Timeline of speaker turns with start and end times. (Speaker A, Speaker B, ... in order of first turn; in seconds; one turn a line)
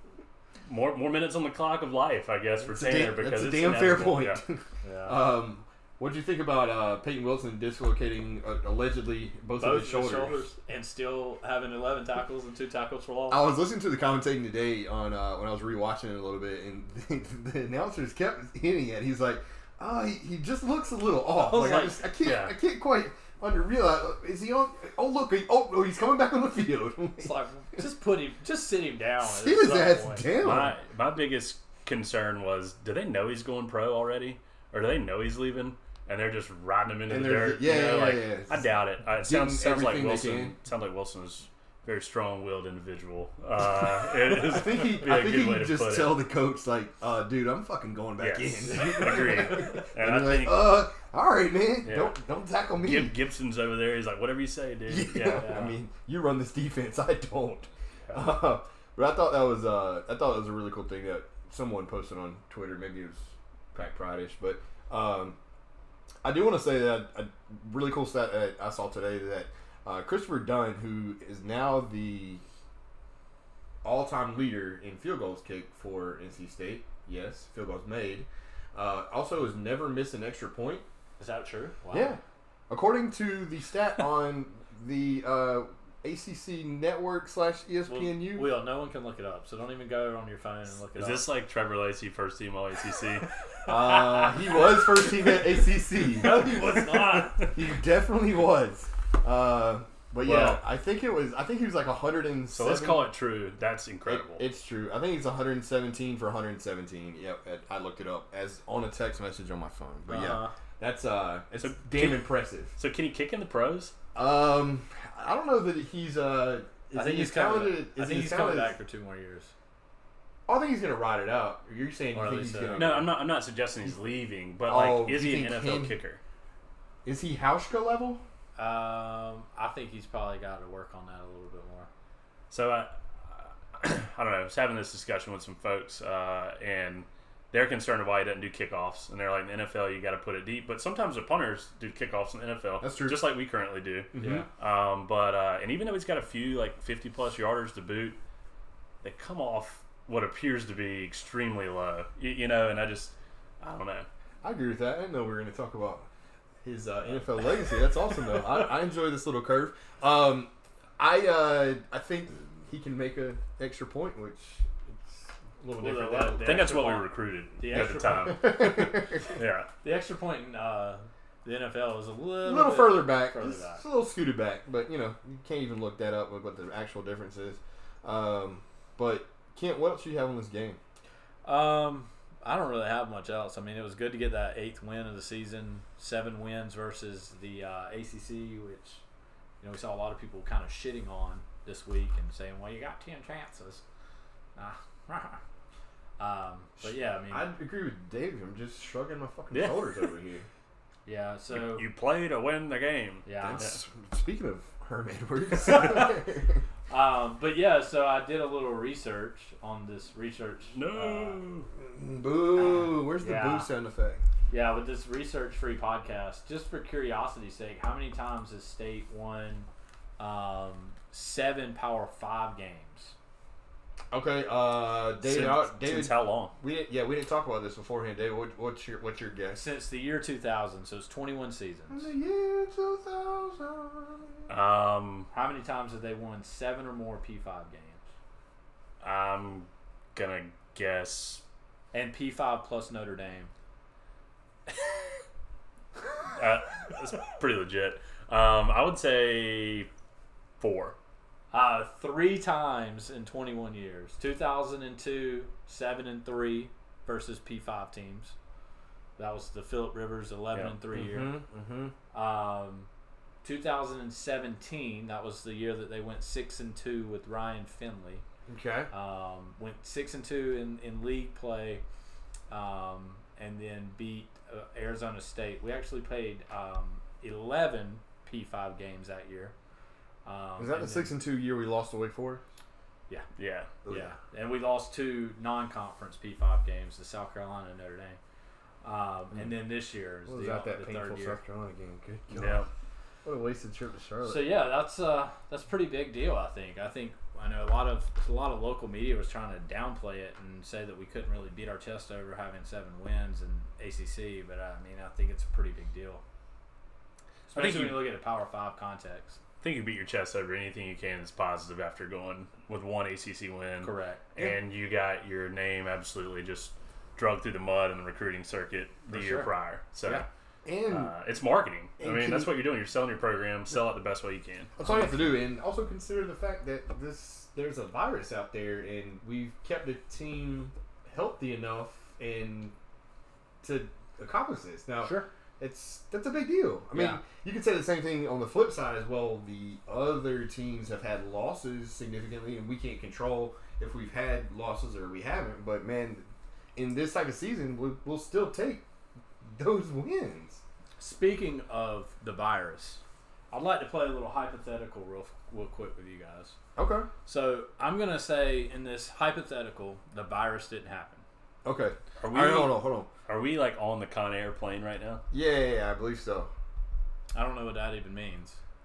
Speaker A: 0.7-4.4
Speaker B: 2.7-10.5
Speaker C: 4.8-5.2
Speaker C: 9.6-13.4
Speaker B: 13.3-27.3
Speaker C: 21.4-21.9
Speaker A: 22.2-22.5
Speaker C: 27.2-30.3
Speaker B: 29.2-30.8
Speaker A: 30.4-46.2
Speaker B: 37.1-40.5
Speaker B: 44.0-53.1
Speaker A: 48.2-50.9
Speaker A: 51.8-52.1
Speaker A: 52.8-55.6
Speaker B: 54.9-65.4
Speaker C: 55.3-55.8
Speaker B: 66.2-72.4
Speaker B: 73.8-80.8
Speaker C: 81.2-82.2
Speaker B: 81.9-88.5
Speaker C: 87.9-91.3
Speaker A: 90.9-93.3
Speaker B: 93.7-96.5
Speaker C: 96.1-97.4
Speaker A: 96.5-97.5
Speaker B: 97.5-103.1
Speaker A: 100.2-100.6
Speaker A: 102.5-104.4
Speaker B: 104.0-112.7
Speaker C: 110.1-110.5
Speaker A: 111.6-113.9
Speaker B: 114.1-118.7
Speaker C: 116.9-119.5
Speaker B: 120.5-123.1
Speaker C: 122.1-123.0
Speaker A: 122.7-126.2
Speaker B: 124.7-126.0
Speaker B: 127.0-128.2
Speaker C: 128.6-131.9
Speaker A: 132.5-148.2
Speaker B: 142.8-143.2
Speaker B: 144.1-144.5
Speaker C: 144.2-144.5
Speaker A: 149.0-154.1
Speaker B: 154.4-156.1
Speaker B: 156.6-166.8
Speaker C: 165.8-168.4
Speaker A: 166.4-169.7
Speaker B: 167.7-169.3
Speaker C: 169.8-173.8
Speaker B: 172.4-180.8
Speaker C: 181.4-189.0
Speaker C: 189.6-193.8
Speaker C: 194.6-195.4
Speaker C: 196.2-197.4
Speaker B: 196.8-200.4
Speaker A: 199.5-200.1
Speaker C: 201.1-201.9
Speaker A: 201.5-203.8
Speaker C: 203.2-203.7
Speaker B: 203.4-206.6
Speaker C: 205.7-206.1
Speaker C: 206.9-211.4
Speaker A: 210.7-211.7
Speaker B: 211.8-214.2
Speaker C: 212.6-213.7
Speaker C: 214.5-223.1
Speaker B: 224.1-229.6
Speaker A: 225.2-226.5
Speaker C: 229.5-232.1
Speaker B: 231.9-234.5
Speaker A: 234.5-235.3
Speaker C: 235.3-238.0
Speaker A: 239.0-241.4
Speaker C: 241.9-243.5
Speaker A: 246.3-249.9
Speaker A: 250.6-250.9
Speaker C: 251.5-258.3
Speaker C: 259.2-261.4
Speaker B: 260.9-261.9
Speaker C: 262.1-262.9
Speaker C: 263.4-268.2
Speaker B: 268.5-268.9
Speaker C: 268.9-271.8
Speaker C: 272.5-279.5
Speaker C: 280.2-281.1
Speaker B: 280.6-282.4
Speaker A: 283.4-283.7
Speaker B: 283.8-284.1
Speaker C: 283.9-288.2
Speaker C: 288.8-291.4
Speaker B: 290.2-292.7
Speaker A: 292.3-292.7
Speaker B: 293.2-294.5
Speaker C: 294.2-306.2
Speaker C: 307.5-309.4
Speaker A: 307.5-308.1
Speaker A: 309.6-320.2
Speaker C: 313.8-314.2
Speaker C: 319.1-319.5
Speaker B: 320.6-321.1
Speaker A: 320.9-324.7
Speaker B: 322.0-322.5
Speaker B: 324.8-332.7
Speaker C: 324.8-325.3
Speaker B: 333.6-348.8
Speaker C: 335.0-335.3
Speaker C: 336.9-337.2
Speaker B: 349.4-350.6
Speaker C: 351.0-356.6
Speaker B: 356.8-357.1
Speaker C: 357.2-361.2
Speaker B: 361.6-363.1
Speaker A: 362.2-365.2
Speaker B: 365.3-366.5
Speaker C: 367.3-368.6